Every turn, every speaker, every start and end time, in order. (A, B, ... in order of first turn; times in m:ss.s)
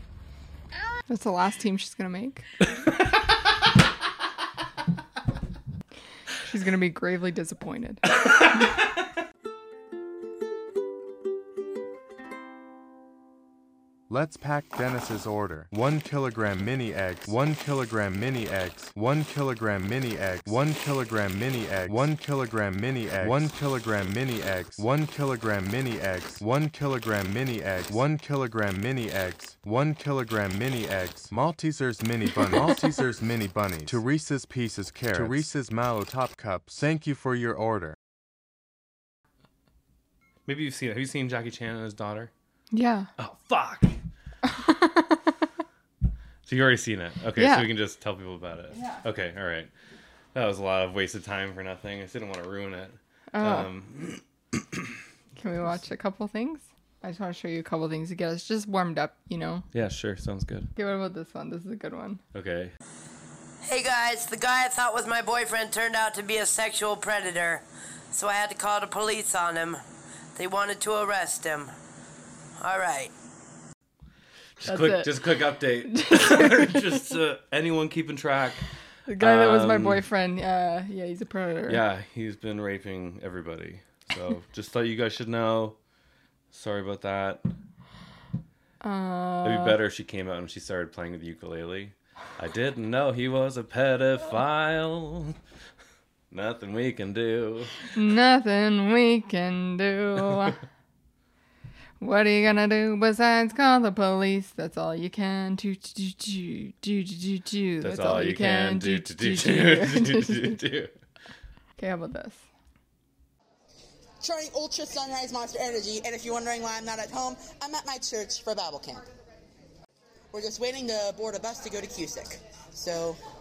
0:01.1-0:02.4 A
0:06.4-0:08.0 A
0:14.1-0:38.0 B
0:40.5-0:42.3 C
0:42.7-0:43.1 A
0:43.2-0:44.0 C
0:44.4-0:45.3 A
0:46.5-0:49.7 C
0:47.4-0:47.7 A
0:50.3-0:55.0 C
0:53.3-0:53.7 A
0:55.4-0:59.7 A
0:59.7-1:00.7 C
1:00.8-1:02.2 A
1:02.3-1:02.8 C
1:03.6-1:09.8 D
1:10.4-1:11.8 D
1:12.6-1:13.1 D
1:14.6-1:18.6 C
1:14.6-1:15.3 A
1:15.8-1:16.9 A
1:19.1-1:21.8 A
1:19.2-1:20.1 C
1:21.7-1:25.8 C
1:26.5-1:27.4 C
1:28.8-1:29.8 A
1:29.4-1:35.4 C
1:36.3-1:37.8 C
1:38.0-1:40.6 A
1:42.0-1:50.6 A
1:47.8-1:51.0 C
1:51.8-1:52.4 A
1:54.2-1:59.0 E
2:00.3-2:03.2 E